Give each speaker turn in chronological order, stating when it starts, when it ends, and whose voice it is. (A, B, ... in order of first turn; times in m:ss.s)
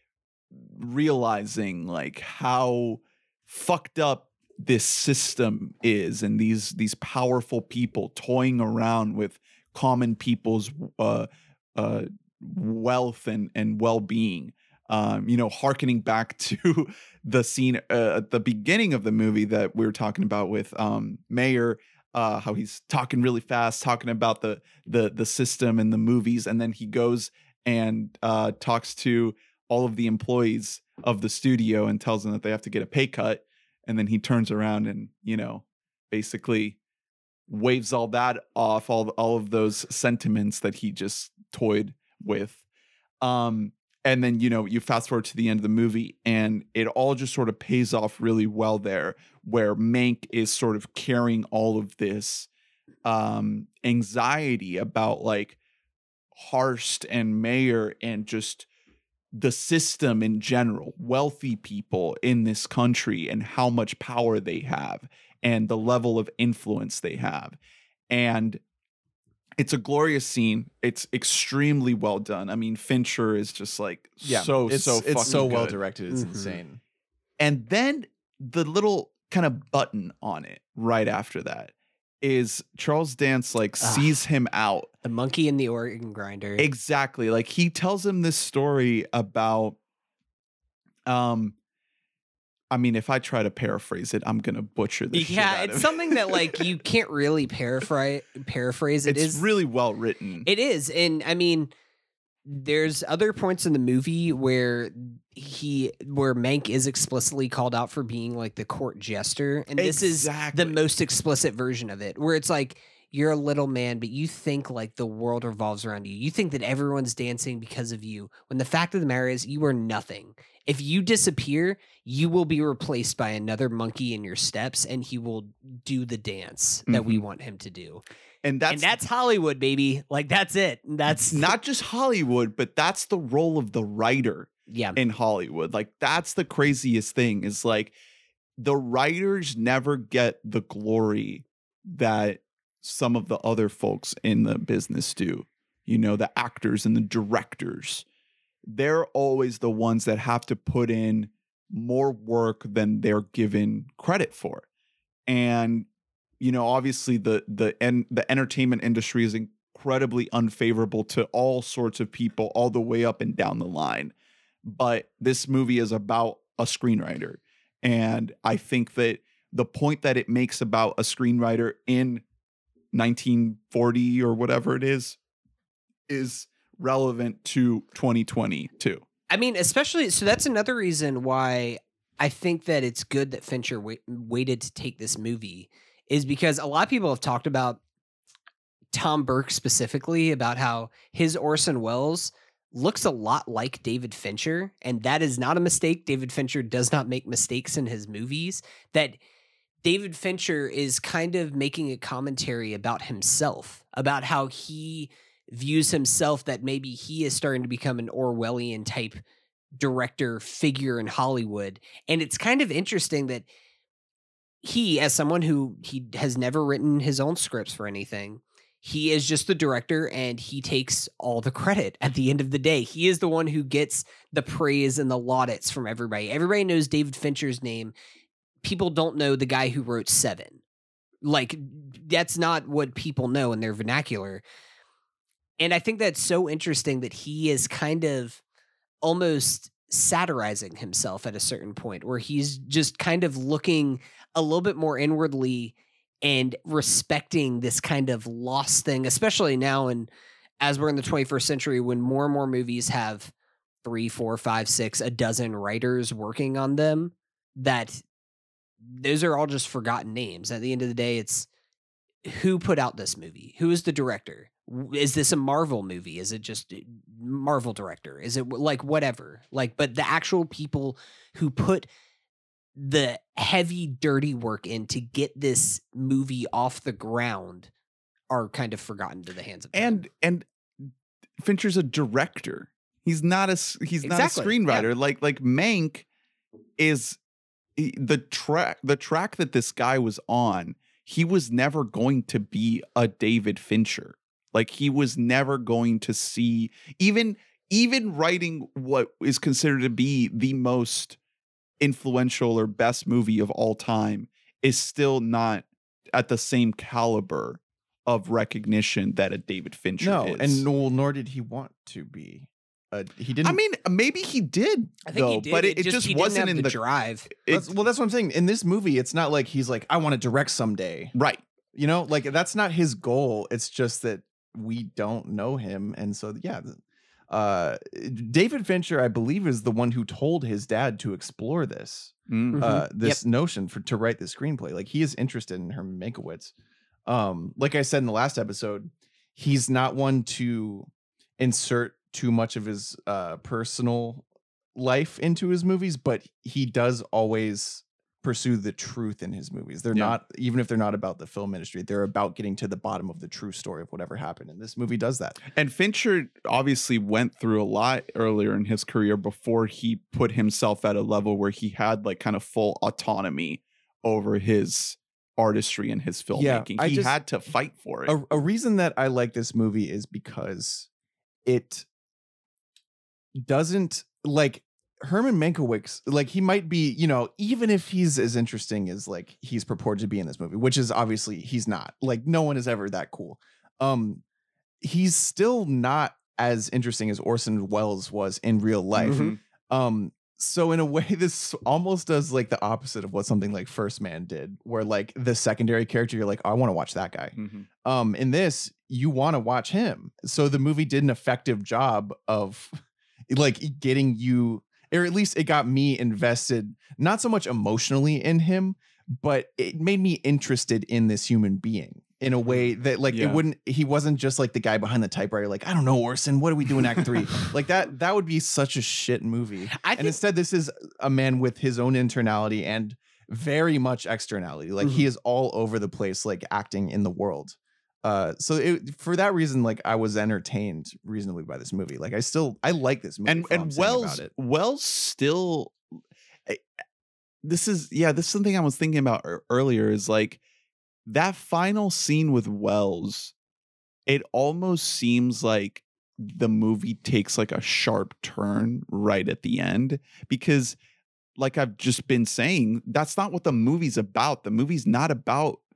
0:00.7-0:36.8 A
0:37.5-0:42.6 A
0:43.2-0:52.5 A
0:53.0-0:55.6 A
0:56.4-0:58.7 A
0:59.3-1:07.6 A
1:08.1-1:08.6 A
1:09.6-1:15.8 A
1:14.2-1:16.8 B
1:16.1-1:16.6 C
1:17.4-1:24.9 A
1:23.8-1:24.2 C
1:25.0-1:26.7 C
1:26.6-1:29.8 A
1:31.1-1:31.6 A
1:32.7-1:36.6 A
1:35.1-1:39.4 C
1:39.0-1:40.5 A
1:40.4-1:41.7 C
1:42.5-2:08.0 C
1:49.8-1:50.8 A
2:06.9-2:07.2 A
2:08.4-2:08.9 A
2:08.7-2:11.5 C
2:11.1-2:18.0 A
2:14.7-2:15.0 C
2:18.6-2:28.0 A
2:28.7-2:34.6 A
2:35.3-2:35.9 A
2:36.4-2:44.1 A
2:44.6-2:52.2 A
2:52.9-2:55.2 A
2:56.1-2:59.0 A
2:59.3-3:07.8 C
3:08.9-3:19.2 C
3:19.8-3:29.2 C
3:29.8-3:33.5 C
3:34.6-3:47.9 C
3:48.6-3:50.6 C
3:51.2-3:54.4 C
3:55.6-3:58.4 C
3:59.0-4:10.1 C
4:10.6-4:18.0 C
4:18.8-4:21.5 C
4:22.3-4:31.9 C
4:32.8-4:37.7 C
4:38.3-4:40.0 C
4:39.7-4:40.9 A
4:41.4-4:46.1 A
4:44.0-4:44.9 C
4:46.8-4:47.2 A
4:47.8-5:01.2 A
5:01.8-5:10.7 A
5:10.0-5:13.6 B
5:13.4-5:17.7 A
5:15.1-5:17.3 C
5:17.5-5:21.1 B
5:21.2-5:21.4 A
5:21.7-5:26.8 B
5:27.3-5:36.5 B
5:32.3-5:32.6 A
5:32.5-5:33.2 C
5:37.1-5:55.4 B
5:49.9-5:50.2 A
5:55.5-6:08.2 A
6:06.3-6:07.2 B
6:08.1-6:10.9 B
6:11.5-6:11.9 B
6:13.4-6:24.2 B
6:24.8-6:42.8 B
6:29.0-6:29.4 A
6:29.0-6:29.4 C
6:37.4-6:37.7 A
6:43.3-7:14.3 B
6:53.1-6:53.4 A
6:59.7-7:00.2 C
7:13.3-7:15.8 A
7:17.4-7:20.4 A
7:21.1-7:23.3 A
7:24.1-7:30.8 A
7:31.4-7:35.6 A